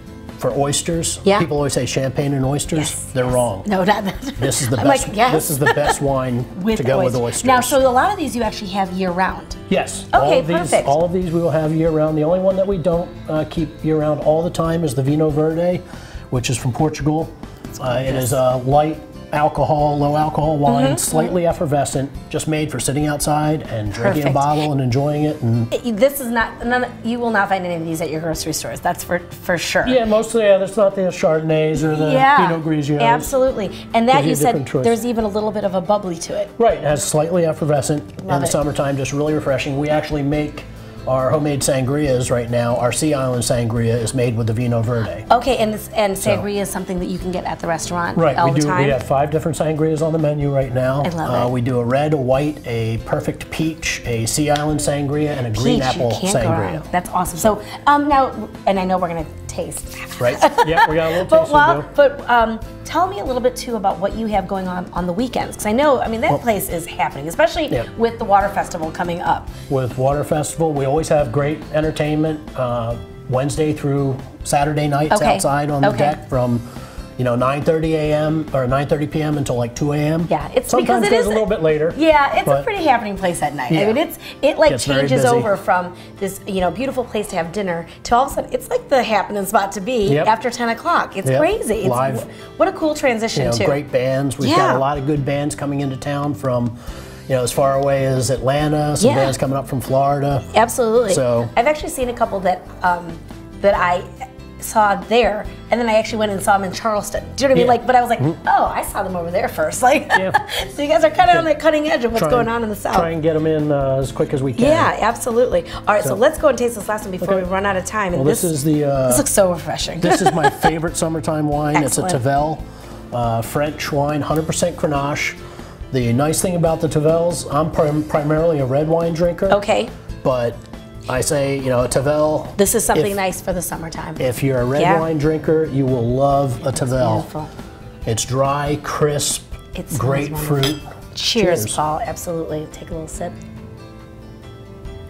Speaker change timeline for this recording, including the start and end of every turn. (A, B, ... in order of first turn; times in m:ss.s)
0:00.4-0:03.7 A
0:02.7-0:06.0 B
0:04.4-0:07.8 A
0:06.5-0:09.6 B
0:09.7-0:25.7 A
0:10.1-0:10.9 B
0:17.7-0:18.4 B
0:20.6-0:21.3 B
0:24.0-0:24.6 B
0:25.7-0:30.0 B
0:29.8-0:33.3 A
0:31.8-0:36.5 B
0:34.1-0:35.0 A
0:36.6-0:45.3 A
0:38.2-0:38.6 B
0:45.3-0:49.0 B
0:46.2-0:46.4 A
0:48.1-0:56.9 A
0:51.0-0:51.5 B
0:55.5-1:09.5 B
1:00.2-1:01.9 A
1:09.7-1:22.7 A
1:15.1-1:16.2 B
1:20.3-1:33.8 B
1:23.7-1:24.0 A
1:24.6-1:25.5 A
1:30.0-1:30.3 A
1:31.2-1:32.2 A
1:33.3-1:36.8 A
1:34.4-1:34.8 B
1:37.3-1:40.5 A
1:39.0-1:39.3 B
1:40.5-1:44.1 B
1:41.1-1:41.5 A
1:44.6-1:53.1 B
1:47.5-1:48.4 A
1:50.1-1:50.4 A
1:52.1-1:54.9 A
1:54.6-1:58.5 B
1:57.2-1:57.5 A
1:58.1-1:59.2 A
1:59.1-2:00.7 B
2:00.0-2:05.4 A
2:01.7-2:02.2 B
2:05.9-2:09.6 A
2:09.5-2:09.9 B
2:10.2-2:13.2 A
2:12.6-2:14.2 B
2:14.2-2:17.3 A
2:14.8-2:15.0 B
2:16.6-2:17.5 B
2:18.0-2:20.8 A
2:19.7-2:23.4 B
2:21.4-2:21.8 A